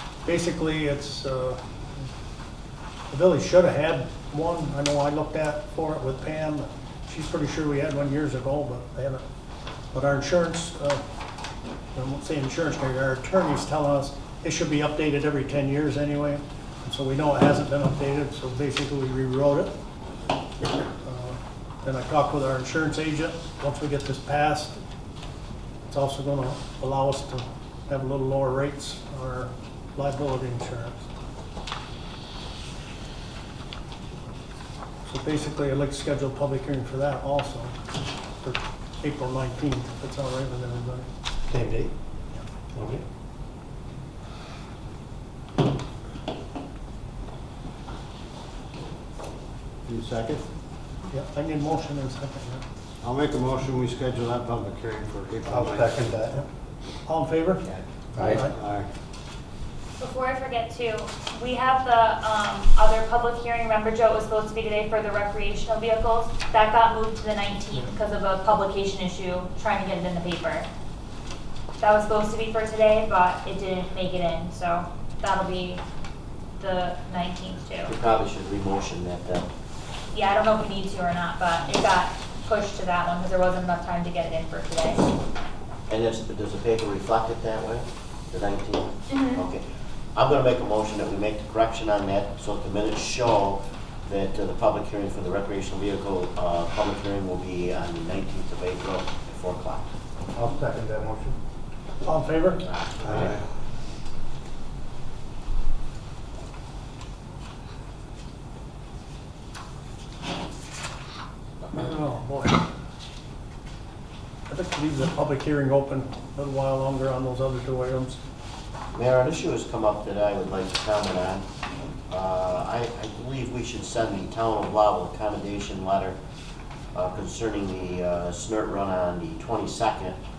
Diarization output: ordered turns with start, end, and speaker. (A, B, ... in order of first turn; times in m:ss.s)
0:00.2-0:01.6 A
0:03.1-0:09.2 A
0:09.9-0:11.0 A
0:12.0-0:19.7 A
0:20.9-0:24.8 A
0:25.9-0:31.1 A
0:35.1-0:37.8 A
0:38.4-0:41.1 A
0:41.5-0:41.9 B
0:42.8-0:43.0 B
0:49.9-0:50.4 C
0:51.1-0:52.6 A
0:53.0-0:56.0 C
0:55.4-0:56.4 B
0:57.1-0:57.7 A
0:58.2-0:58.5 A
0:58.4-0:58.9 C
1:00.0-1:10.7 D
1:11.8-1:15.8 D
1:16.6-1:17.9 D
1:17.9-1:19.5 E
1:20.1-1:25.1 D
1:25.9-1:29.6 E
1:29.1-1:29.4 D
1:30.2-1:39.9 E
1:40.4-1:41.4 B
1:42.0-1:42.6 A
1:42.6-1:43.3 E
1:51.7-1:52.6 A
1:54.5-1:58.2 A
1:58.9-2:01.4 E
2:02.1-2:06.2 E
2:06.9-2:10.2 E